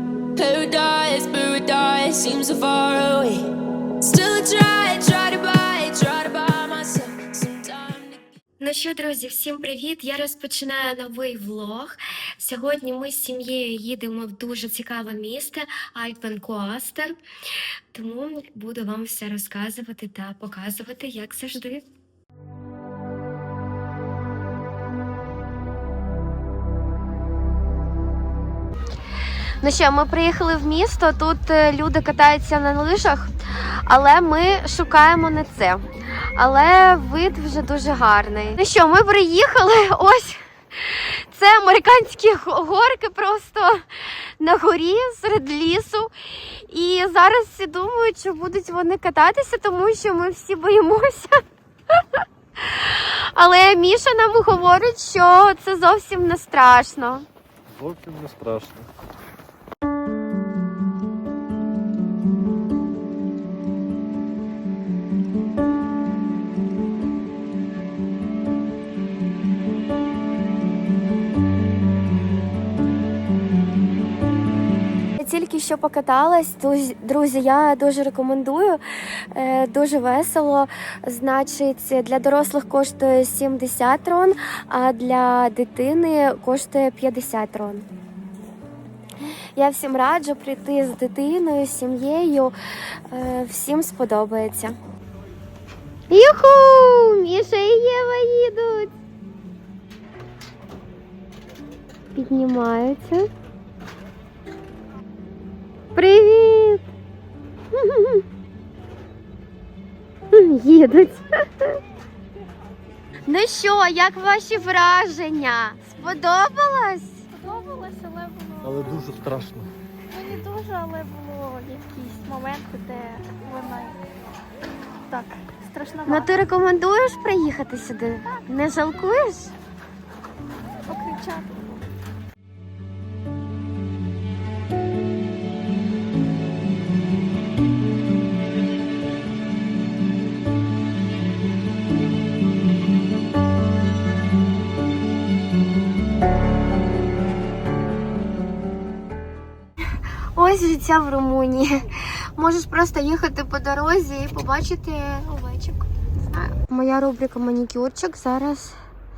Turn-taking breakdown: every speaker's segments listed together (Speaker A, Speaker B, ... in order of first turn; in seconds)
Speaker A: 0.4-3.5, 4.0-8.2
Speaker B: 8.6-17.1, 17.9-21.8, 29.6-33.3, 33.9-35.9, 36.4-43.8, 44.4-51.4, 52.0-57.2, 75.2-78.8, 79.3-87.9, 89.5-92.5, 93.1-94.8, 96.1-98.9, 102.1-103.3, 105.9-106.8, 107.7-108.2, 110.3-111.8, 113.3-117.2, 126.1-129.5, 150.3-158.8
Speaker C: 57.7-58.9, 118.6-119.7
Speaker D: 117.3-119.0, 120.1-124.0, 125.1-126.3, 130.9-131.8